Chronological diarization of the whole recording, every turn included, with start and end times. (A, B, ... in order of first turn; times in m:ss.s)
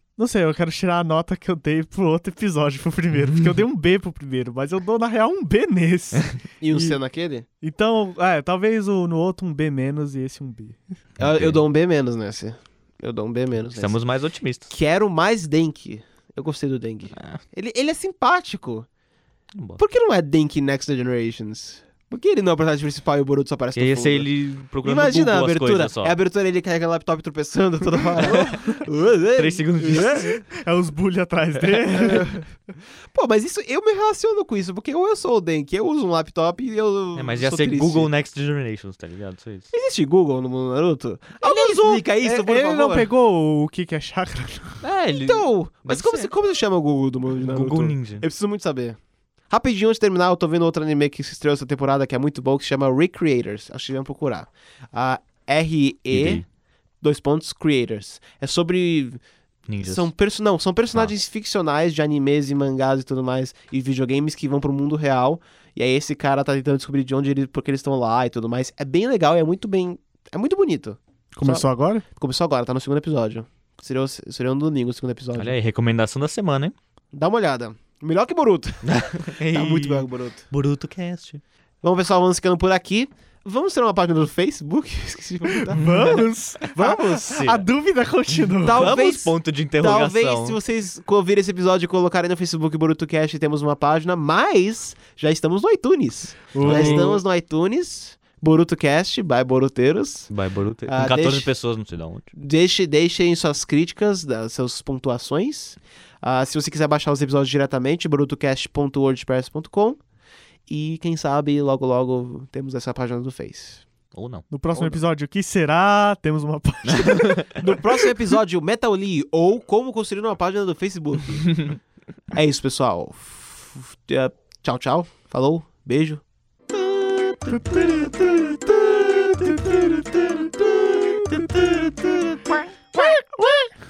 0:00.2-0:07.0 A
0:03.2-0:03.6 B
0:06.6-0:07.5 C
0:07.6-0:10.8 A
0:11.2-0:11.6 B
0:11.2-0:14.0 C
0:13.7-0:14.7 B
0:14.7-0:18.9 C
0:19.6-0:19.8 B
0:19.8-0:24.3 C
0:23.8-0:26.2 B
0:24.8-0:30.4 C
0:28.2-0:28.6 B
0:29.4-0:30.4 B
0:30.2-0:32.3 A
0:31.9-0:32.5 C
0:33.1-0:38.1 C
0:37.2-0:39.7 B
0:39.7-0:43.1 C
0:41.4-0:41.9 B
0:41.7-0:44.8 A
0:44.8-0:46.3 B
0:45.1-0:49.0 C
0:47.4-0:48.2 B
0:49.5-0:56.4 C
0:56.1-0:56.4 B
0:57.0-0:59.2 C
0:59.7-1:00.1 B
0:59.8-1:15.6 C
1:11.3-1:12.0 A
1:15.4-1:16.8 B
1:17.1-1:18.8 C
1:18.8-1:21.4 B
1:19.5-1:20.5 C
1:21.8-1:27.2 C
1:25.7-1:27.7 B
1:25.8-1:29.0 A
1:28.6-1:40.3 C
1:28.7-1:30.6 B
1:36.5-1:37.2 A
1:36.6-1:37.2 B
1:40.3-1:42.3 B
1:40.9-1:41.5 C
1:42.3-1:50.0 C
1:50.7-1:53.8 C
1:54.1-1:54.4 B
1:54.5-1:57.4 A
1:54.7-1:55.0 C
1:56.9-1:57.6 B
1:57.5-2:01.7 C
2:02.3-2:13.6 C